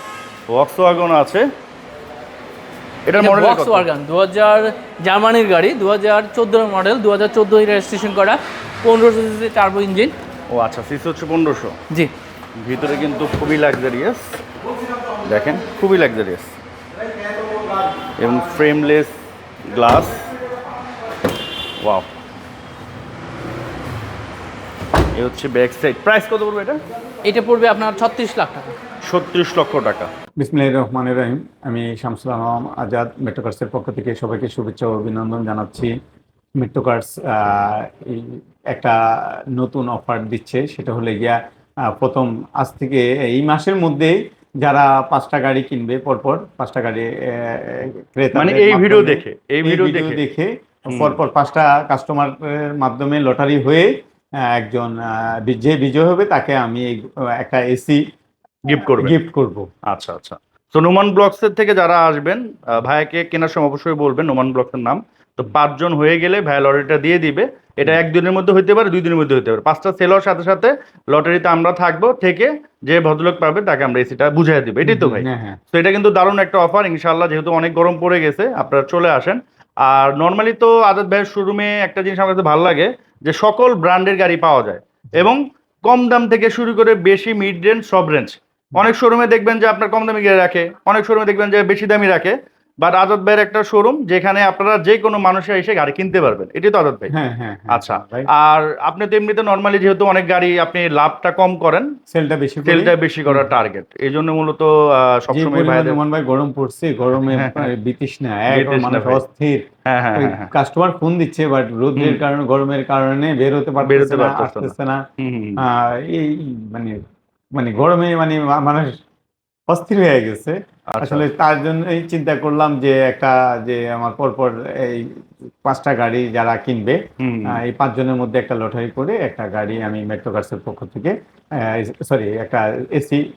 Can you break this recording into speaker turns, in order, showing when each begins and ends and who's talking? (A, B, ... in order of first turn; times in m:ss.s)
0:00.5-0:01.5 A
0:03.0-0:03.8 A
0:03.2-0:10.1 B
0:10.5-0:11.8 A
0:12.6-0:14.4 A
0:15.2-0:16.5 A
0:18.2-0:19.1 A
0:19.7-0:20.3 A
0:21.8-0:22.1 A
0:25.1-0:26.8 A
0:27.2-0:28.7 B
0:29.0-0:30.1 A
0:30.4-0:35.9 C
0:36.6-0:58.0 C
0:48.3-0:50.2 A
0:50.9-0:51.2 A
0:58.6-0:59.2 A
0:59.0-0:59.7 C
0:59.8-1:37.1 A
1:14.8-1:15.6 C
1:37.1-1:38.3 C
1:37.7-1:41.9 A
1:42.1-1:43.5 C
1:42.6-1:46.0 A
1:45.3-1:55.0 C
1:47.3-1:47.7 A
1:48.5-1:49.2 A
1:49.8-1:50.5 A
1:52.0-1:52.2 A
1:53.8-1:55.6 A
1:55.6-1:57.0 C
1:57.5-1:59.0 C
1:59.7-2:13.2 C
2:00.9-2:01.2 A
2:07.2-2:07.6 A